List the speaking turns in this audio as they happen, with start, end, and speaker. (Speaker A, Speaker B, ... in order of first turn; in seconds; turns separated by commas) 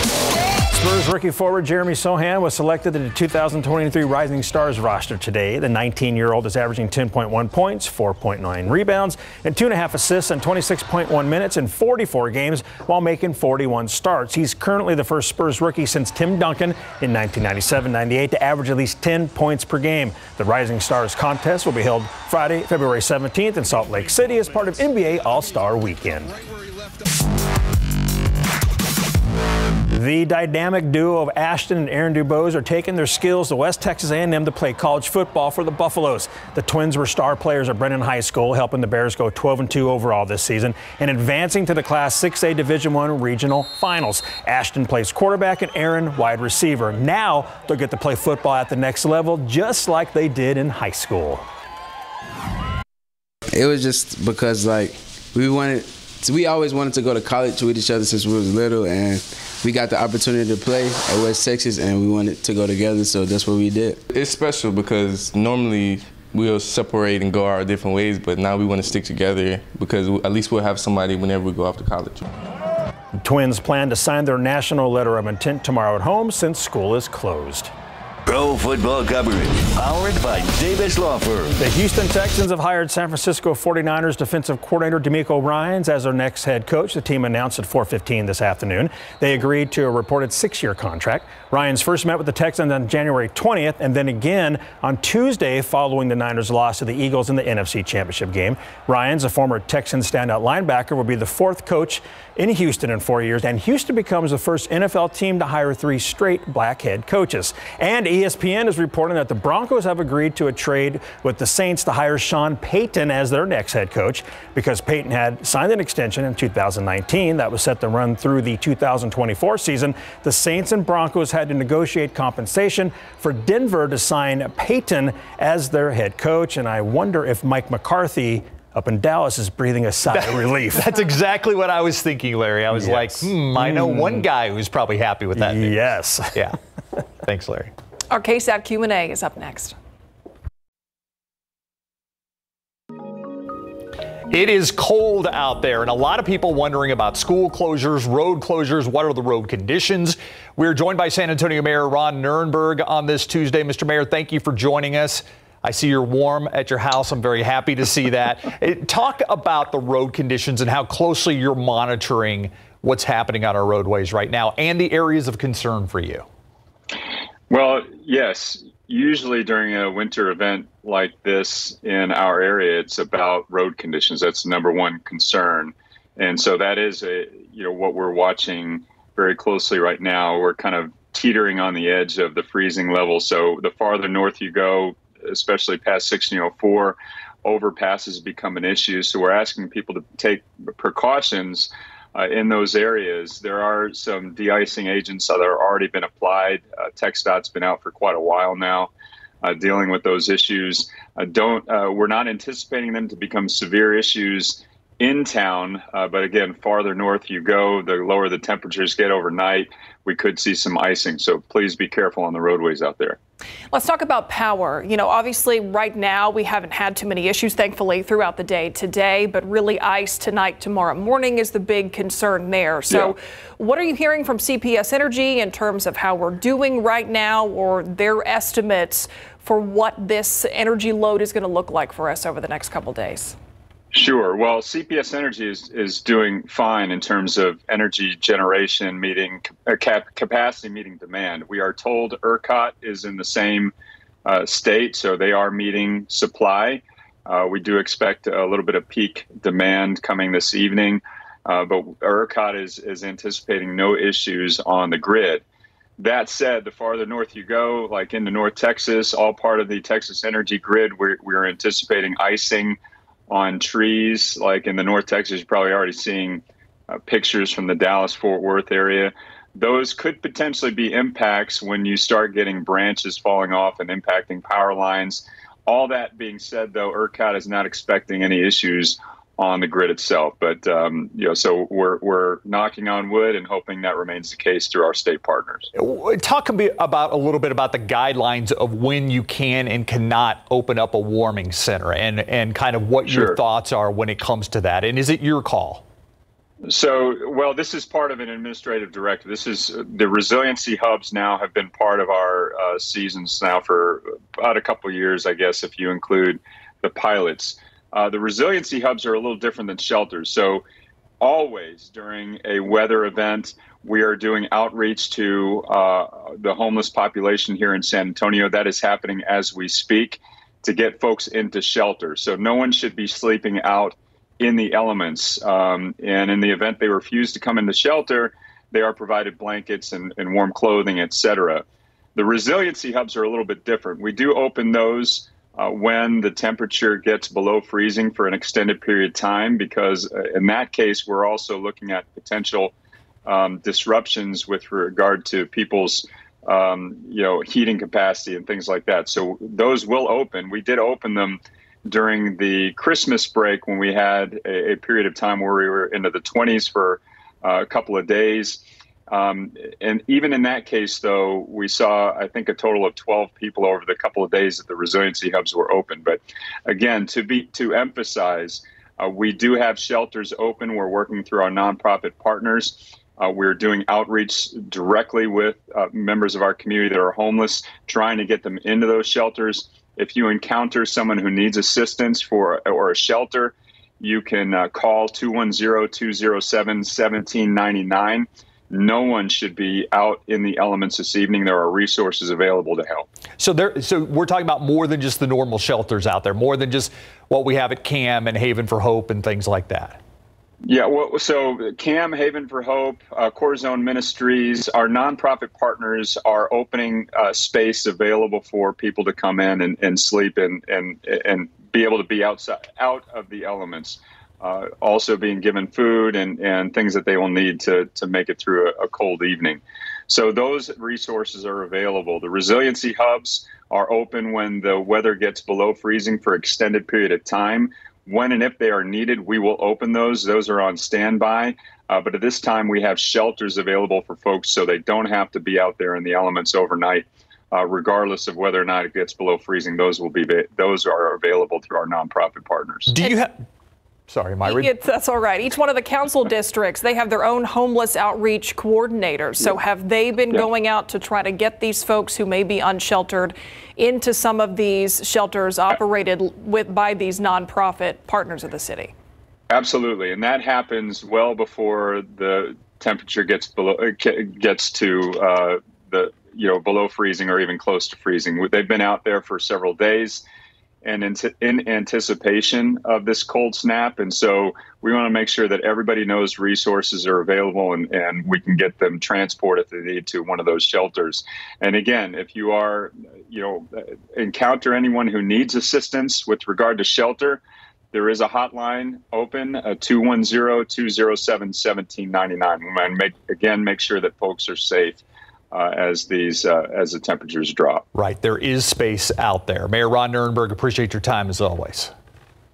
Speaker A: 0.7-26.4, Speaker A: 29.9-51.5, Speaker B: 53.5-64.0, Speaker C: 64.1-72.3, Speaker A: 73.2-77.7, Speaker D: 78.2-81.5, Speaker A: 81.6-131.0, Speaker E: 130.1-136.6, Speaker A: 132.7-134.3, Speaker A: 135.3-136.4, Speaker E: 137.2-137.7, Speaker F: 138.1-139.7, Speaker E: 144.3-166.2, Speaker G: 167.5-198.9, Speaker G: 199.4-213.2, Speaker F: 213.7-233.3, Speaker G: 222.9-223.1, Speaker G: 233.9-243.7, Speaker G: 244.2-255.4, Speaker G: 256.0-262.8, Speaker G: 263.3-266.4, Speaker G: 267.0-285.7, Speaker E: 285.7-295.8, Speaker G: 293.1-293.4, Speaker G: 296.7-310.6, Speaker G: 311.2-331.6, Speaker G: 332.1-342.7, Speaker G: 343.2-393.1, Speaker E: 393.4-400.0, Speaker G: 400.6-442.9, Speaker E: 442.9-443.3, Speaker E: 444.1-444.7, Speaker F: 444.4-458.9, Speaker G: 459.5-470.2, Speaker G: 470.8-487.4, Speaker G: 487.9-497.8, Speaker E: 497.9-501.9